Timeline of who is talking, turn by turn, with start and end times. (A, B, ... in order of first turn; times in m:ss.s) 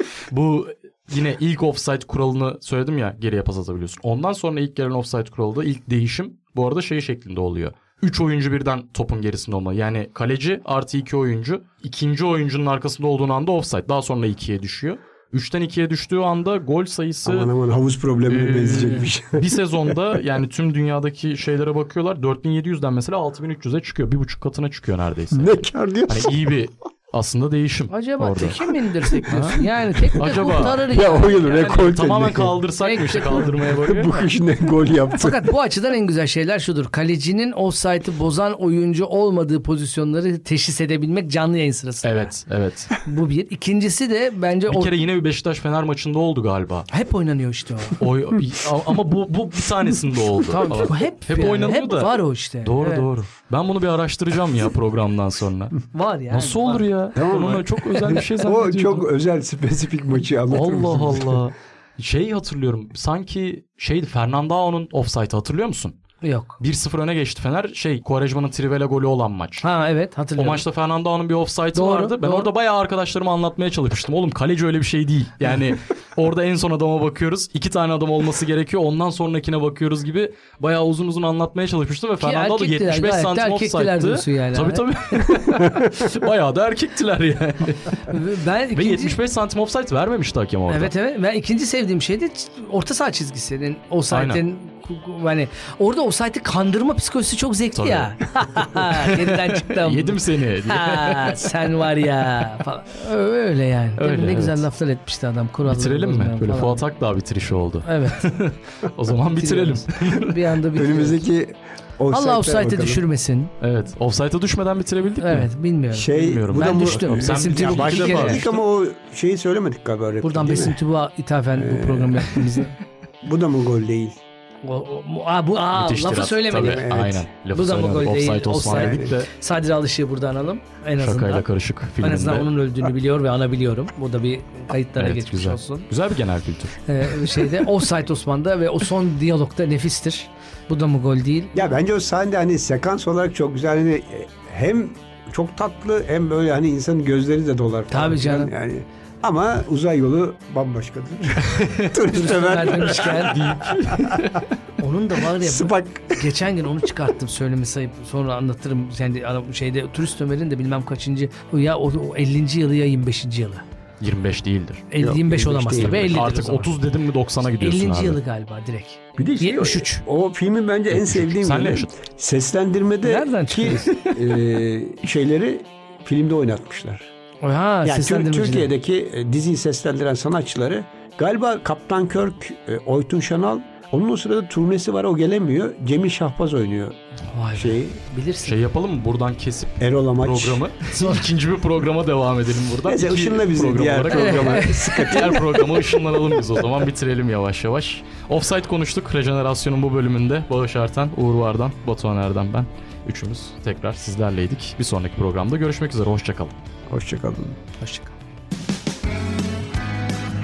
0:00.3-0:17.5 A
0:17.2-0:19.5 B
0:18.3-0:25.6 A
0:25.3-0:26.4 B
0:26.1-0:34.2 A
0:27.9-0:32.0 C
0:30.9-0:32.6 B
0:32.8-0:34.2 C
0:33.8-0:35.4 B
0:35.1-0:42.3 C
0:42.0-0:42.9 A
0:43.0-0:44.9 C
0:44.7-0:46.9 A
0:46.9-0:48.0 C
0:48.0-0:59.0 A
0:50.4-0:53.0 C
0:55.9-0:56.8 C
0:57.1-1:01.4 B
1:00.5-1:06.0 A
1:06.2-1:06.6 C
1:06.6-1:09.6 A
1:09.6-1:10.6 C
1:10.4-1:28.0 A
1:11.7-1:12.5 C
1:22.2-1:25.4 C
1:28.1-1:29.2 C
1:28.7-1:30.9 A
1:30.7-1:46.8 C
1:34.1-1:34.4 A
1:37.7-1:41.5 A
1:44.0-1:44.6 A
1:45.6-1:50.4 A
1:47.8-1:48.2 C
1:49.4-1:51.2 C
1:50.8-1:53.0 B
1:52.1-1:53.5 C
1:53.6-1:55.5 A
1:55.2-1:58.6 C
1:55.9-2:00.8 B
1:56.1-1:58.5 A
2:00.2-2:02.8 C
2:01.6-2:02.4 B
2:03.2-2:04.2 B
2:04.6-2:11.5 C
2:05.7-2:09.3 A
2:06.6-2:07.2 B
2:08.6-2:09.1 B
2:11.0-2:12.5 A
2:12.0-2:15.9 C
2:15.0-2:16.8 A
2:16.8-2:21.5 C
2:21.5-2:34.2 B
2:27.9-2:28.5 C
2:32.1-2:33.4 C
2:33.2-2:34.4 A
2:34.8-2:43.6 C
2:35.4-2:36.2 B
2:44.0-2:44.9 A
2:44.9-2:46.7 C
2:45.0-2:46.4 B
2:45.8-2:48.2 A
2:47.6-2:50.0 C
2:49.2-2:57.1 B
2:50.9-2:51.9 A
2:53.0-2:54.0 C
2:57.4-2:58.7 C
2:57.8-3:07.0 B
3:07.3-3:08.6 C
3:07.5-3:08.0 B
3:08.4-3:26.5 A
3:09.8-3:10.6 B
3:11.0-3:11.2 C
3:12.8-3:15.5 B
3:14.1-3:15.4 C
3:26.9-3:27.6 B
3:27.8-3:28.1 C